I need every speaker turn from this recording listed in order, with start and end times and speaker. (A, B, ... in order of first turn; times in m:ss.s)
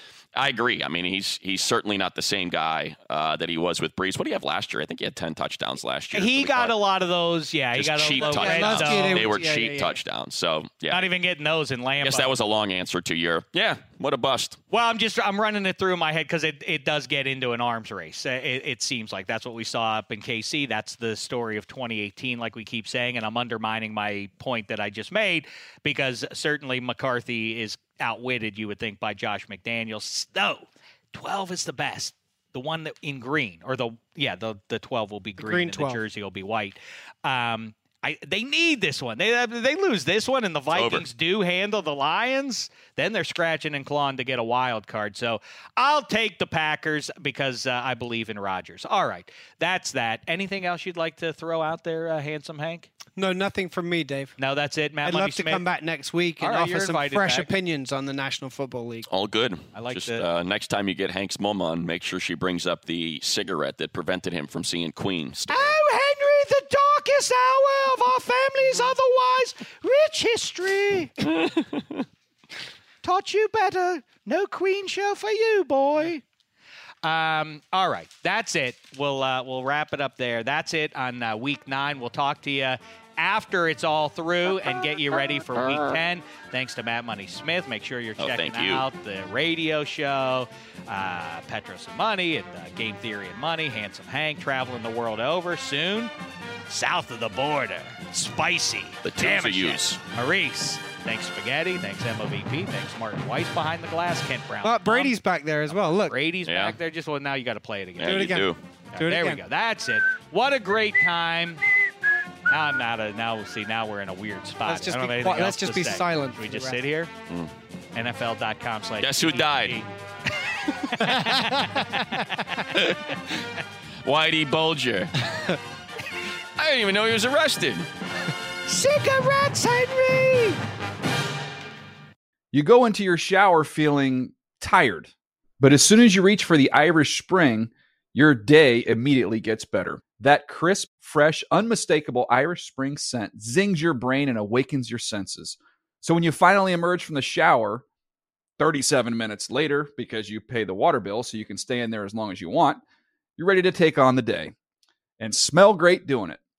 0:00.4-0:06.8 A
0:06.1-0:09.3 B
0:07.8-0:11.1 A
0:08.2-0:10.0 C
0:10.9-0:12.3 B
0:12.0-0:14.6 A
0:14.7-0:52.9 B
0:35.4-0:36.0 C
0:40.7-0:41.1 A
0:53.2-0:54.4 C
0:54.4-0:55.6 B
0:55.0-0:59.1 C
0:56.4-0:57.5 B
0:59.1-1:05.8 A
0:59.8-1:00.3 B
1:05.5-1:11.2 B
1:11.2-1:12.1 A
1:13.0-1:16.2 B
1:17.0-1:36.1 B
1:25.6-1:26.0 A
1:28.2-1:28.8 A
1:36.7-1:45.2 B
1:39.0-1:40.0 A
1:44.6-1:46.2 C
1:45.7-1:48.3 B
1:46.5-1:46.8 A
1:48.0-1:48.6 A
1:48.0-1:48.5 C
1:48.9-1:51.6 B
1:49.0-1:49.4 C
1:52.5-1:57.1 B
1:54.7-1:56.8 C
1:58.0-1:59.9 B
1:59.0-1:59.8 A
2:00.7-2:02.9 B
2:00.9-2:01.2 A
2:02.7-2:03.3 A
2:04.0-2:05.6 A
2:06.6-2:07.9 A
2:08.7-2:10.6 B
2:12.5-2:27.8 D
2:28.6-2:32.8 D
2:33.4-2:34.5 D
2:35.2-2:36.4 D